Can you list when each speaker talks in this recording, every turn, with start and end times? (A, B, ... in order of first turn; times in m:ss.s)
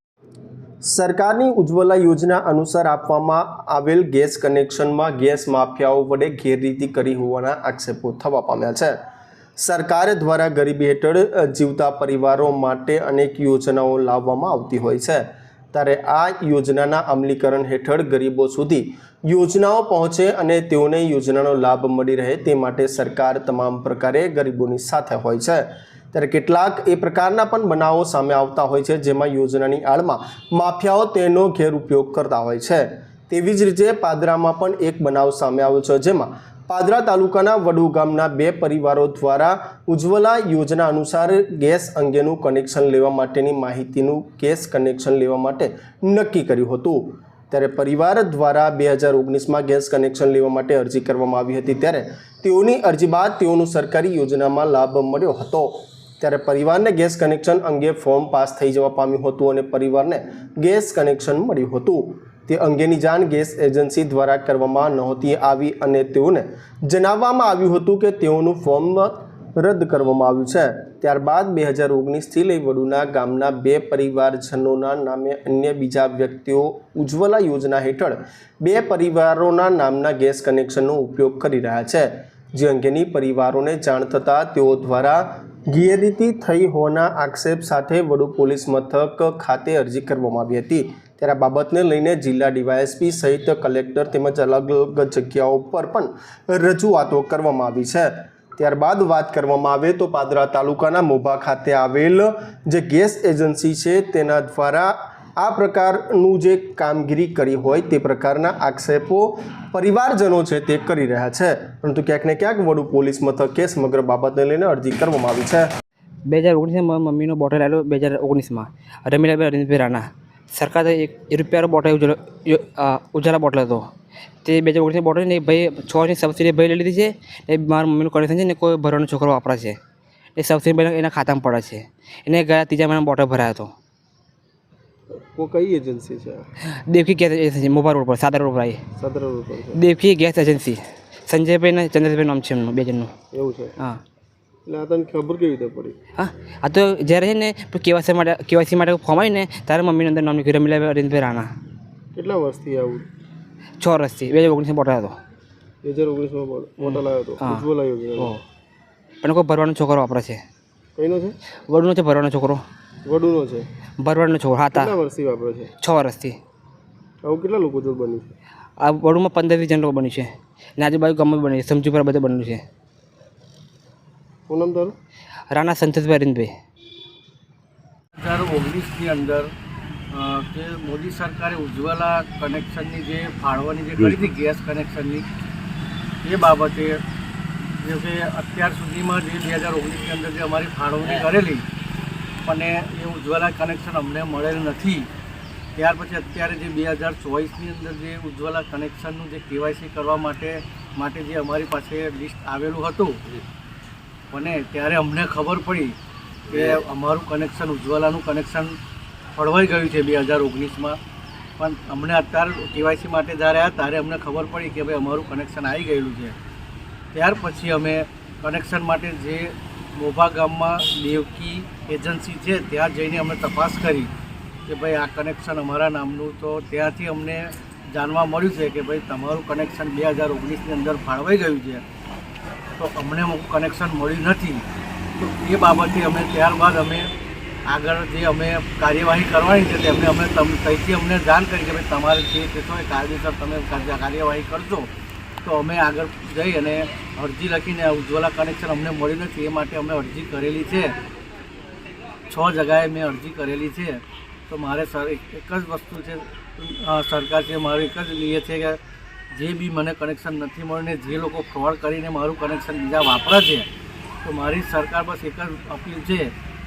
0:00.8-0:09.0 A
0:09.6-1:55.7 A
1:56.3-2:03.9 B
2:04.4-2:09.8 B
2:10.4-2:13.7 B
2:15.2-2:16.5 A
2:16.9-2:18.8 B
2:19.0-2:19.8 A
2:19.7-2:23.1 B
2:23.3-2:23.8 A
2:24.7-2:26.0 A
2:26.2-2:31.5 B
2:32.2-2:33.1 A
2:33.8-2:35.2 B
2:35.8-2:38.4 A
2:36.8-2:37.6 B
2:38.2-2:38.4 B
2:39.2-2:40.4 B
2:41.0-2:41.4 A
2:41.7-2:42.6 B
2:43.0-2:43.7 A
2:44.0-2:44.9 B
2:44.7-2:45.7 A
2:45.8-2:46.4 B
2:47.2-2:48.3 A
2:48.8-2:52.6 B
2:54.5-2:54.9 A
2:55.5-2:56.5 B
2:58.2-2:59.5 C
3:00.1-3:05.2 C
3:06.2-3:07.0 C
3:07.6-3:11.6 C
3:12.4-3:15.1 C
3:15.8-3:23.3 C
3:24.3-3:26.0 C
3:26.5-3:28.8 C
3:29.4-3:31.0 C
3:31.6-3:36.4 C
3:37.1-3:44.1 C
3:44.7-3:51.8 C
3:52.8-3:54.6 C
3:55.2-3:57.1 C
3:57.7-4:04.9 C
4:05.4-4:10.9 C
4:12.3-4:18.8 C
4:19.3-4:23.7 C
4:24.2-4:26.3 C